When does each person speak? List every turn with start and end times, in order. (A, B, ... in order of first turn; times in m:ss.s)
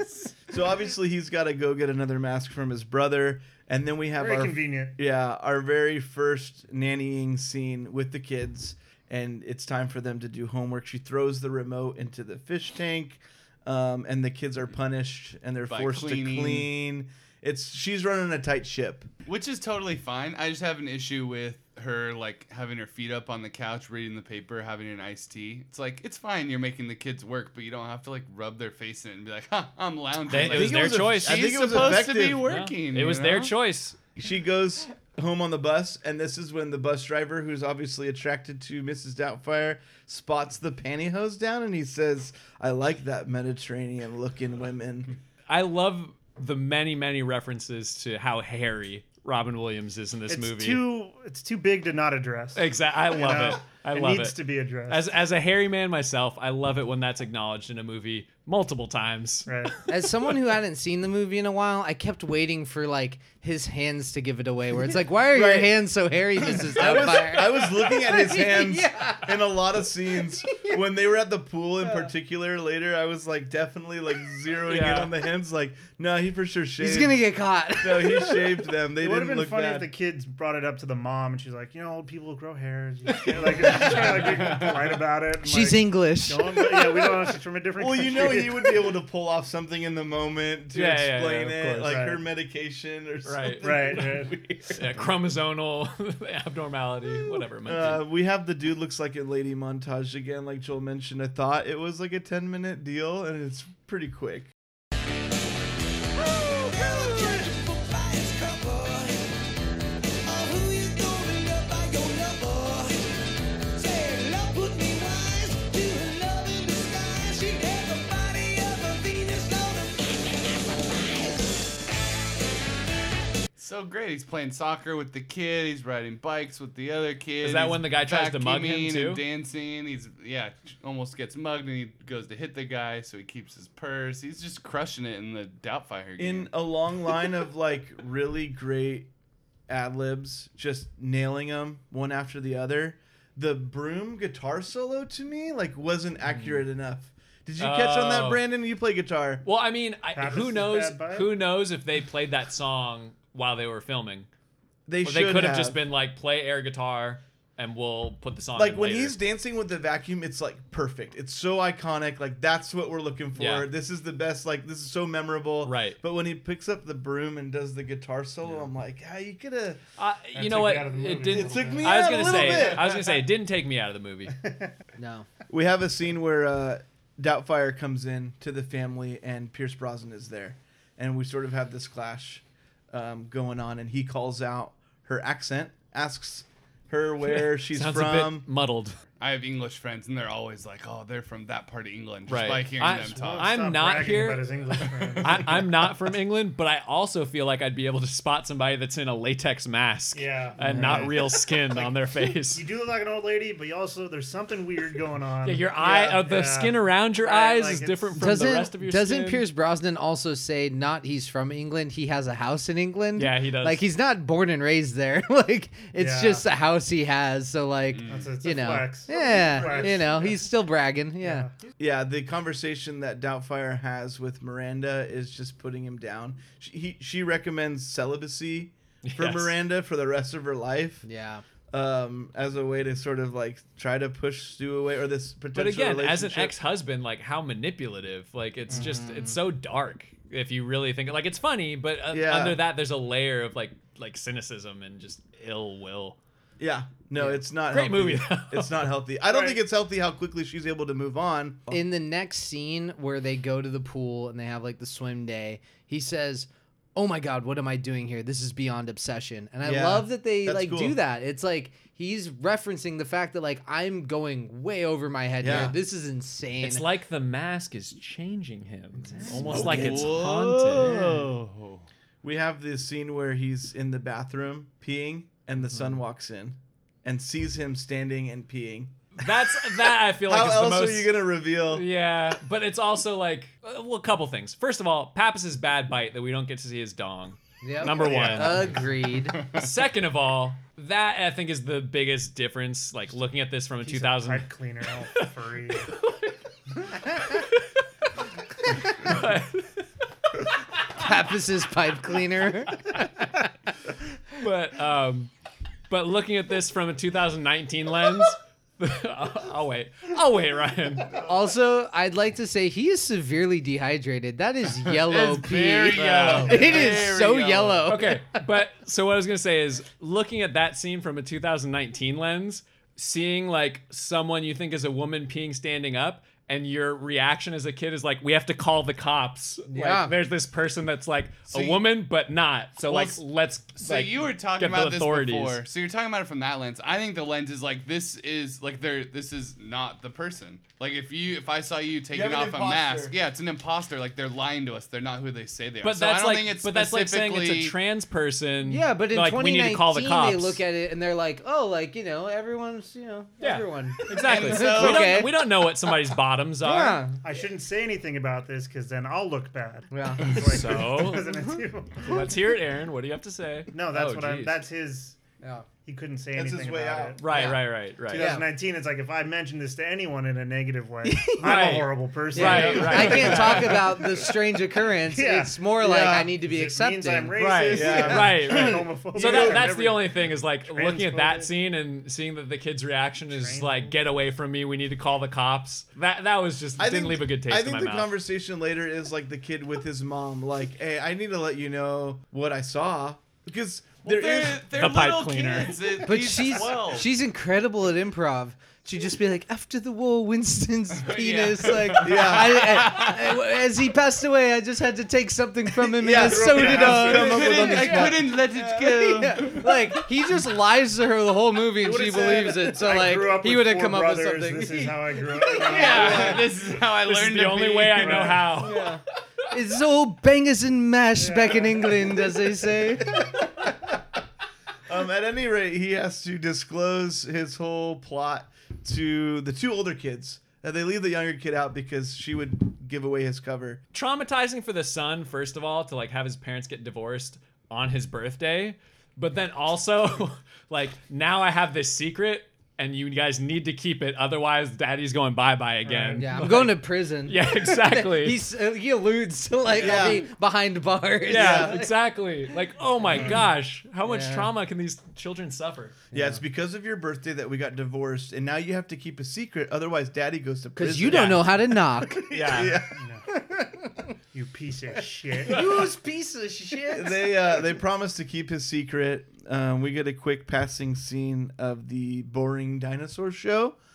0:00.5-0:19.1 A
0:04.2-0:05.0 B
0:15.7-0:16.7 C
0:19.2-0:33.5 C
0:30.3-0:34.1 D
0:30.3-0:32.5 A
0:34.2-0:45.2 A
0:45.5-0:50.8 D
0:50.3-0:55.2 B
0:52.5-0:59.5 D
0:59.4-0:59.8 B
0:59.9-1:09.2 E
1:05.3-1:05.7 A
1:06.6-1:17.2 A
1:14.7-1:15.1 D
1:16.8-1:18.5 E
1:17.8-1:19.9 A
1:19.0-1:28.9 B
1:23.1-1:24.9 D
1:25.4-1:26.9 E
1:27.8-1:34.9 A
1:30.7-1:32.0 D
1:31.8-1:32.2 B
1:33.2-1:38.0 D
1:33.6-1:34.5 B
1:37.6-1:44.5 A
2:03.6-2:16.5 C
2:07.4-2:09.2 D
2:16.2-2:19.1 A
2:19.7-2:29.4 A
2:27.6-2:28.4 D
2:29.4-2:34.3 D
2:30.1-2:31.4 B
2:34.9-2:35.8 A
2:35.0-2:39.2 D
2:38.6-2:49.8 A
2:43.4-2:43.7 D
2:45.6-2:46.0 D
2:50.0-2:54.3 D
2:50.3-2:53.1 B
2:51.3-2:53.0 A
2:54.4-2:54.7 B
2:55.0-2:55.3 E
2:55.5-3:08.5 A
3:07.7-3:09.0 D
3:09.2-3:13.5 C
3:12.3-3:14.6 D
3:12.9-3:16.0 B
3:14.9-3:15.2 C
3:15.2-3:22.6 D
3:20.1-3:28.4 B
3:20.6-3:21.1 E
3:25.4-3:29.4 D
3:28.1-3:41.5 E
3:33.2-3:33.9 D
3:36.0-3:36.4 B
3:37.9-3:38.3 C
3:38.1-3:40.5 B
3:41.2-3:41.7 B
3:41.8-3:51.0 A
3:49.0-3:49.5 D
3:51.0-3:51.4 E
3:51.7-3:56.5 A
3:55.5-4:06.2 D
3:58.7-3:59.4 E
3:58.7-3:59.0 B
4:02.1-4:02.6 A
4:06.6-4:11.8 A
4:07.7-4:08.9 D
4:09.2-4:09.6 B
4:11.7-4:26.8 E
4:19.6-4:21.0 A
4:25.4-4:25.7 A
4:26.6-4:31.0 D
4:29.2-4:29.6 E
4:29.4-4:31.8 C
4:29.7-4:30.0 A
4:30.8-4:31.3 A
4:32.2-4:39.0 A
4:39.2-4:41.1 D
4:40.2-4:41.9 A
4:41.7-4:48.7 D
4:47.6-4:49.4 E
4:47.9-4:48.5 B
4:49.5-4:54.5 D
4:53.8-4:55.9 B
4:55.8-4:56.3 D
4:58.7-4:59.8 D
5:01.0-5:03.0 E
5:04.4-5:05.3 D
5:05.9-5:11.2 D
5:11.2-5:18.4 E
5:15.0-5:17.9 C
5:15.9-5:16.8 D
5:17.9-5:35.6 D
5:29.7-5:30.1 E
5:31.5-5:31.8 C
5:32.8-5:33.2 C
5:33.8-5:47.7 C
5:42.1-5:43.2 A
5:45.8-5:50.6 D
5:48.6-5:55.4 E
5:53.4-5:57.1 D
5:54.2-5:55.2 C
5:56.6-5:57.2 E
5:57.2-6:02.3 B
5:59.9-6:00.9 E
6:00.3-6:01.4 D
6:02.0-6:04.6 D
6:03.7-6:05.2 B
6:05.8-6:21.5 B
6:06.4-6:07.2 A
6:07.2-6:08.3 D
6:07.3-6:07.6 E
6:08.1-6:08.4 E
6:11.0-6:11.8 E
6:11.4-6:13.8 D
6:12.3-6:17.9 E
6:15.8-6:16.3 A
6:17.4-6:28.1 D
6:17.7-6:19.7 A
6:23.3-6:24.0 B
6:26.8-6:34.6 A
6:34.0-6:37.1 C
6:34.7-6:35.8 D
6:36.0-6:48.2 E
6:41.0-6:43.4 C
6:42.0-6:42.8 A
6:46.0-6:48.9 A
6:46.1-6:47.7 B
6:47.1-6:49.8 C
6:48.9-6:56.0 E
6:51.8-6:56.6 B
6:55.6-6:58.3 C
6:55.7-6:56.4 D
6:57.0-6:58.9 D
6:58.0-6:58.5 B
6:58.1-7:03.2 E
7:01.2-7:02.5 B
7:04.9-7:13.8 A
7:13.9-7:28.4 D
7:25.8-7:26.3 B
7:26.2-7:31.9 E
7:29.7-7:30.2 B
7:29.8-7:30.2 A
7:31.2-7:36.0 D
7:31.3-7:31.8 A
7:33.0-7:33.4 B
7:34.0-7:34.5 E
7:36.1-7:41.5 A
7:40.8-7:42.2 E
7:41.1-7:41.8 D
7:42.3-7:42.8 D
7:42.3-7:42.9 A
7:42.8-7:43.2 B
7:44.3-7:45.8 B
7:45.5-7:47.2 E
7:46.9-7:53.8 A